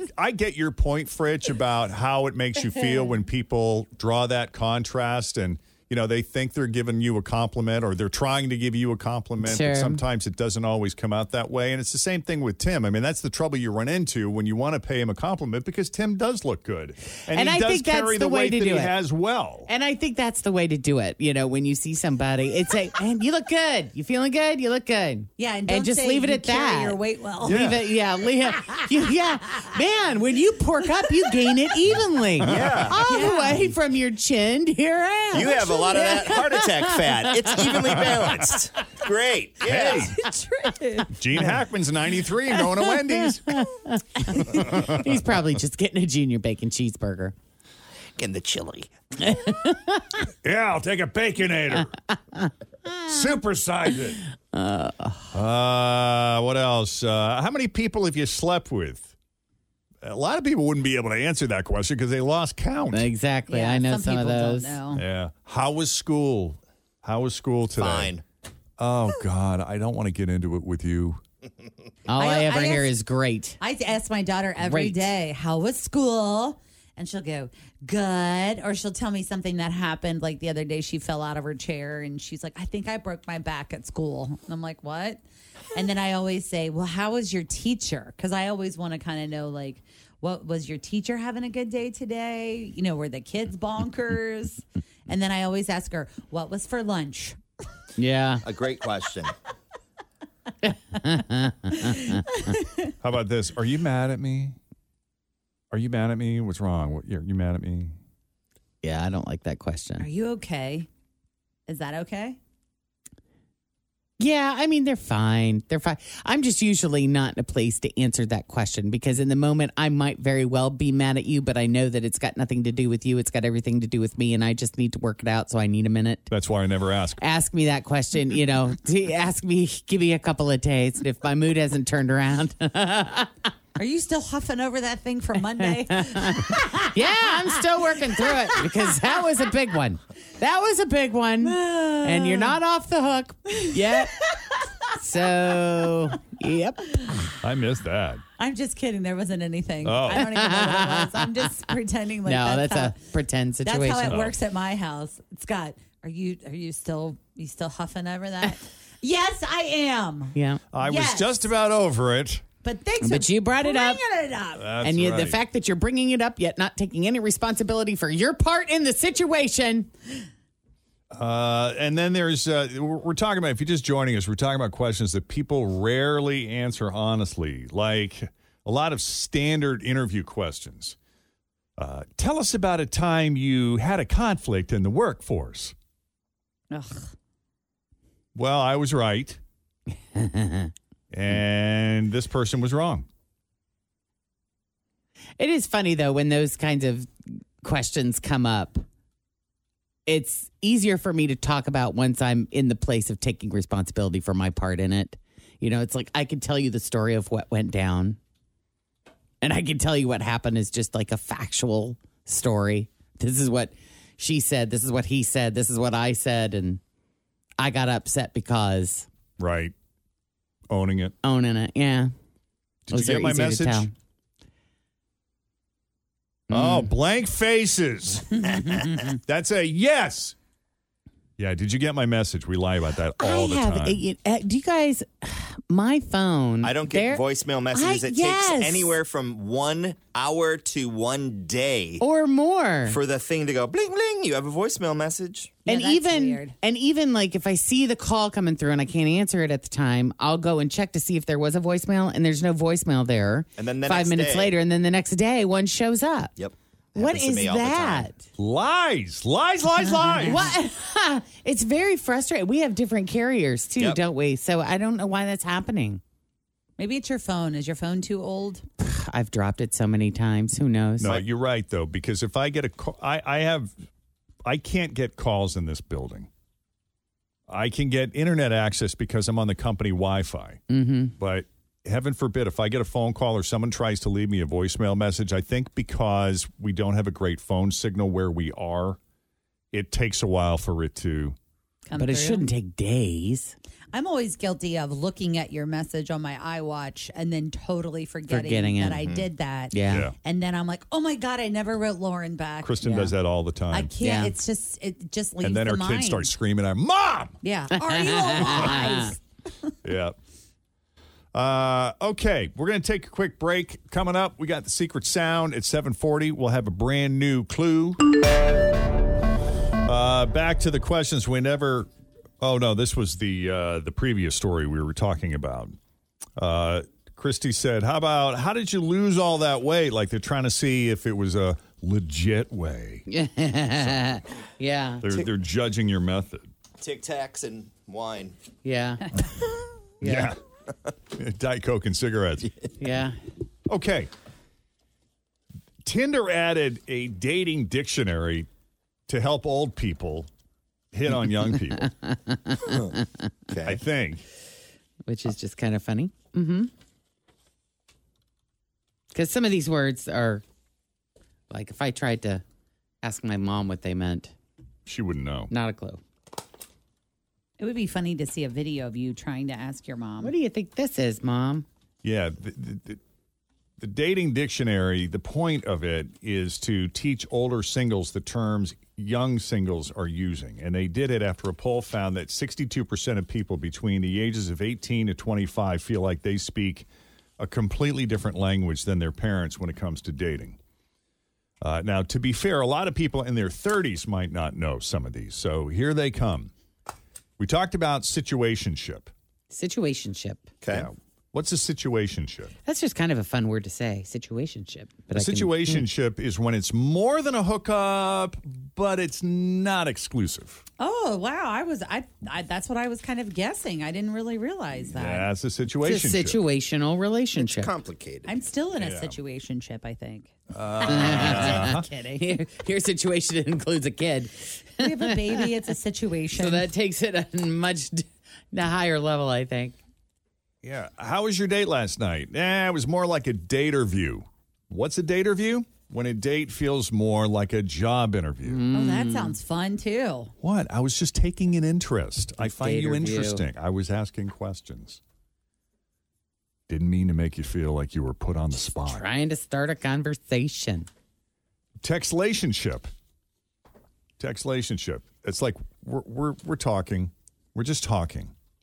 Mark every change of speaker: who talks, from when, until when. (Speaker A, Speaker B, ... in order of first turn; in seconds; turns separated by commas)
Speaker A: 0.2-19.7, Speaker B: 9.4-10.0, Speaker B: 17.3-18.9, Speaker B: 19.7-38.4, Speaker C: 25.4-27.8, Speaker A: 27.4-27.8, Speaker D: 32.4-33.0, Speaker A: 32.5-32.8, Speaker C: 33.1-33.7, Speaker D: 35.3-40.1, Speaker A: 39.6-40.2, Speaker C: 39.9-41.1, Speaker A: 41.1-43.6, Speaker B: 43.5-47.3, Speaker A: 44.5-45.1, Speaker D: 48.2-48.9, Speaker B: 49.2-50.2, Speaker A: 50.4-51.9, Speaker A: 53.1-54.2, Speaker B: 54.5-55.3, Speaker A: 55.3-59.1, Speaker A: 60.0-63.1, Speaker B: 62.9-64.8, Speaker C: 63.5-65.0, Speaker A: 64.9-68.1, Speaker D: 67.8-68.2, Speaker A: 68.8-71.2, Speaker B: 72.1-73.6, Speaker C: 72.2-72.9, Speaker C: 73.6-85.2, Speaker B: 74.6-75.1, Speaker C: 85.8-97.4, Speaker B: 98.0-98.4, Speaker D: 98.4-99.3, Speaker B: 100.6-102.2, Speaker C: 102.3-102.9, Speaker A: 103.0-104.6, Speaker A: 105.7-108.0, Speaker B: 108.8-110.1, Speaker C: 110.0-110.9, Speaker C: 111.7-112.4, Speaker B: 114.2-126.3, Speaker A: 126.3-127.2, Speaker B: 127.2-133.3, Speaker C: 133.8-137.3, Speaker B: 135.6-144.2, Speaker C: 138.2-139.0, Speaker C: 141.4-142.6, Speaker C: 143.5-144.6, Speaker B: 144.9-147.0, Speaker A: 147.4-148.2, Speaker C: 148.4-153.0, Speaker A: 149.8-150.3, Speaker B: 150.1-151.5, Speaker B: 152.3-154.2, Speaker C: 153.7-161.5, Speaker A: 154.1-154.3, Speaker B: 160.3-160.6, Speaker A: 160.7-162.4, Speaker C: 162.6-164.7, Speaker B: 163.0-164.0, Speaker A: 164.6-165.4, Speaker B: 164.8-169.9, Speaker A: 171.1-181.0, Speaker A: 181.8-185.8, Speaker C: 186.7-187.1, Speaker A: 188.3-189.4, Speaker B: 190.2-190.7, Speaker A: 191.1-193.1, Speaker B: 195.4-197.1, Speaker B: 197.6-198.8, Speaker B: 200.1-208.2, Speaker B: 209.4-216.8, Speaker B: 217.6-219.1, Speaker A: 219.4-219.7, Speaker A: 220.7-221.1, Speaker B: 221.2-222.1, Speaker A: 222.9-223.9, Speaker B: 222.9-223.9, Speaker B: 226.5-226.9, Speaker A: 226.5-228.4, Speaker A: 229.3-230.4, Speaker A: 231.4-234.0, Speaker B: 233.2-237.2, Speaker D: 236.6-242.0, Speaker B: 237.7-239.0, Speaker B: 242.0-243.0, Speaker D: 242.9-245.6, Speaker C: 245.7-246.6, Speaker B: 245.7-256.3, Speaker D: 253.6-254.5, Speaker D: 256.4-258.1, Speaker B: 257.0-258.2, Speaker A: 258.4-260.5, Speaker C: 259.9-260.5, Speaker B: 260.2-266.0, Speaker C: 266.8-268.6, Speaker B: 268.8-271.2, Speaker A: 271.0-273.8, Speaker A: 274.4-276.3, Speaker A: 277.5-280.6, Speaker B: 280.7-281.1, Speaker A: 281.2-289.0, Speaker A: 289.7-291.4, Speaker C: 291.9-292.5, Speaker B: 291.9-293.6, Speaker C: 293.9-302.9, Speaker B: 298.3-299.0, Speaker B: 299.7-300.1, Speaker A: 299.9-300.1, Speaker A: 302.6-303.9, Speaker C: 303.7-306.3, Speaker B: 304.0-304.3, Speaker A: 305.4-307.4, Speaker C: 307.4-309.2, Speaker B: 307.7-309.1, Speaker A: 309.8-310.2, Speaker A: 311.3-318.0, Speaker A: 319.9-321.9, Speaker A: 322.4-325.8, Speaker A: 326.4-333.1, Speaker B: 333.1-335.1, Speaker A: 335.0-336.5, Speaker D: 336.8-338.4, Speaker B: 338.6-339.1, Speaker B: 340.0-340.3, Speaker A: 340.0-340.4, Speaker A: 341.1-342.5, Speaker B: 342.8-343.2, Speaker A: 343.7-344.1, Speaker A: 345.8-348.5, Speaker A: 349.1-350.3, Speaker A: 350.9-351.9, Speaker B: 351.8-353.0, Speaker D: 352.7-352.9, Speaker D: 353.5-353.8, Speaker A: 353.6-354.2, Speaker B: 355.1-356.7, Speaker B: 359.1-360.4, Speaker B: 361.5-362.4, Speaker B: 363.0-364.3, Speaker A: 364.9-365.5, Speaker B: 365.5-366.0, Speaker C: 367.6-370.3, Speaker B: 370.2-371.7, Speaker A: 372.0-373.0, Speaker A: 373.8-386.9, Speaker A: 387.4-390.6, Speaker A: 391.6-396.5, Speaker A: 397.4-399.1, Speaker B: 399.5-400.5, Speaker D: 400.6-400.9, Speaker A: 400.7-402.5, Speaker B: 402.7-405.9, Speaker A: 405.1-410.6, Speaker C: 410.8-415.3, Speaker A: 414.9-416.4, Speaker B: 415.8-417.7, Speaker D: 417.4-418.3, Speaker C: 418.3-422.2, Speaker A: 418.8-419.2, Speaker A: 420.5-421.9, Speaker B: 420.9-425.4, Speaker C: 424.8-426.7, Speaker B: 426.4-429.8, Speaker A: 430.6-438.6, Speaker B: 438.4-439.3, Speaker C: 438.7-440.3, Speaker A: 440.4-445.0, Speaker B: 442.4-443.4, Speaker A: 446.7-449.1, Speaker B: 448.9-450.9, Speaker A: 451.8-452.9, Speaker A: 454.2-458.3